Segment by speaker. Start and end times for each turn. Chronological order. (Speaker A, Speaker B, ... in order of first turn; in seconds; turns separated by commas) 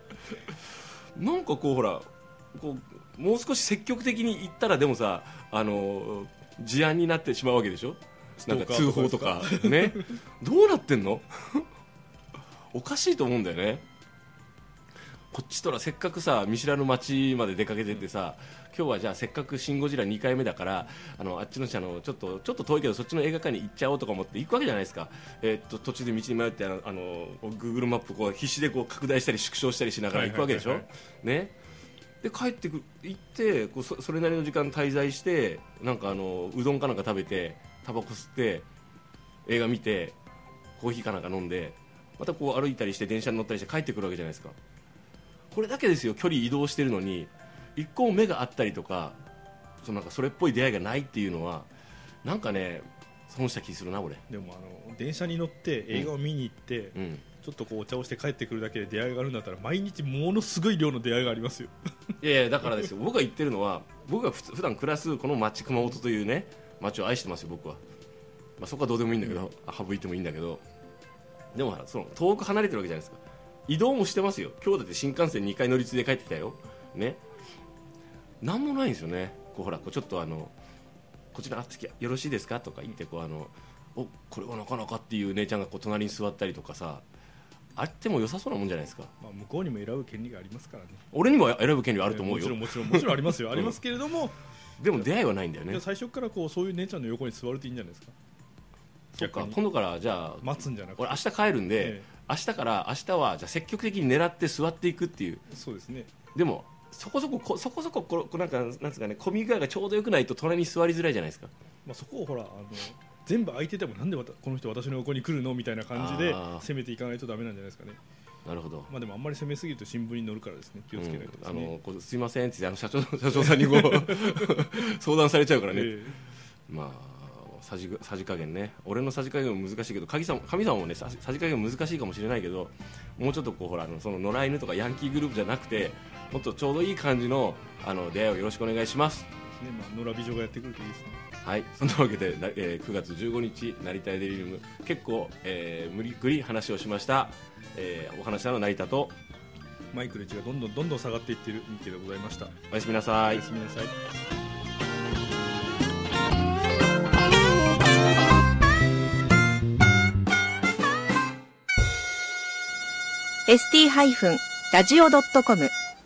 Speaker A: 1.1-11.7, Speaker B: 8.4-10.1, Speaker A: 12.7-13.8, Speaker A: 15.3-31.5, Speaker B: 30.1-30.9, Speaker A: 32.2-38.6, Speaker A: 39.5-40.1, Speaker A: 40.8-44.5, Speaker A: 45.5-49.2, Speaker A: 49.8-51.7, Speaker A: 52.2-54.2, Speaker B: 54.3-62.1, Speaker A: 56.9-57.2, Speaker A: 62.2-67.8, Speaker A: 68.6-70.6, Speaker A: 71.5-77.2, Speaker A: 78.4-80.5, Speaker A: 81.3-87.0, Speaker A: 87.8-89.1, Speaker B: 89.2-91.0, Speaker A: 91.1-93.8, Speaker B: 92.1-94.3, Speaker A: 94.8-95.8, Speaker B: 95.7-98.1, Speaker A: 99.1-105.4, Speaker B: 99.2-99.6, Speaker B: 100.4-101.2, Speaker B: 101.8-102.1, Speaker B: 105.5-106.1, Speaker A: 106.3-111.5, Speaker B: 111.8-118.0, Speaker A: 115.9-116.6, Speaker A: 118.5-118.9, Speaker B: 118.9-121.7, Speaker A: 120.9-139.3, Speaker B: 123.5-124.5, Speaker B: 125.7-126.2, Speaker B: 139.5-141.2, Speaker A: 141.4-149.2, Speaker B: 149.9-152.6, Speaker A: 152.7-153.4, Speaker B: 153.3-153.9, Speaker C: 163.5-165.7